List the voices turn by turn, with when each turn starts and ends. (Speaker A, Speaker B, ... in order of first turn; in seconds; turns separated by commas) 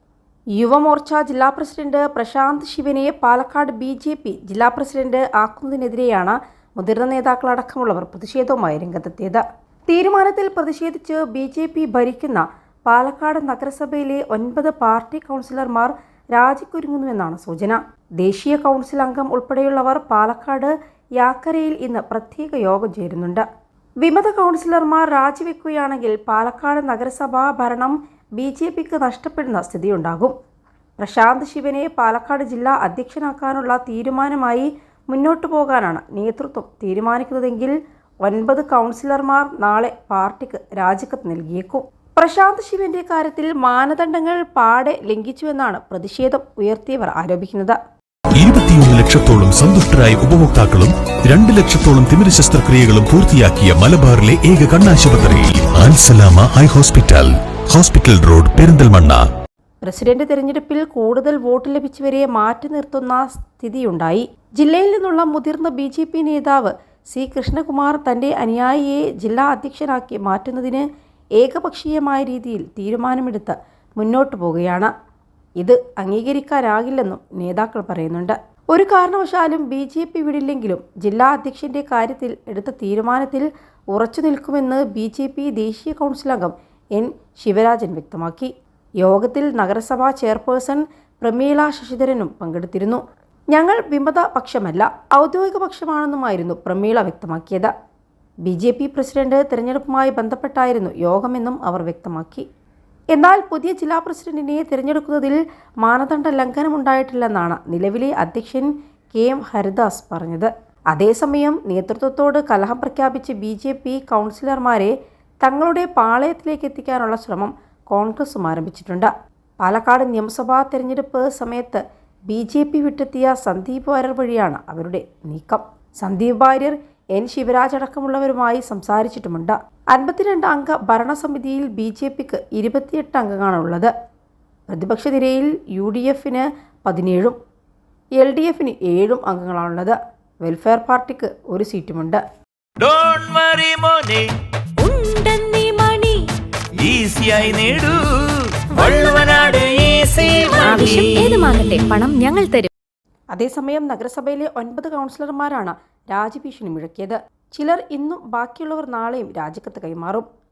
Speaker A: 0.6-23.4, Speaker A: 24.0-30.3, Speaker A: 31.0-47.8, Speaker B: 48.4-59.2, Speaker A: 59.8-70.8, Speaker A: 71.4-74.9, Speaker A: 75.6-88.5, Speaker A: 89.0-97.7, Speaker A: 98.4-102.4, Speaker A: 103.1-133.9, Speaker A: 134.7-137.4, Speaker A: 138.2-142.2, Speaker C: 142.8-144.3, Speaker D: 144.8-146.2, Speaker C: 146.8-151.4, Speaker D: 150.6-152.7, Speaker A: 153.3-160.3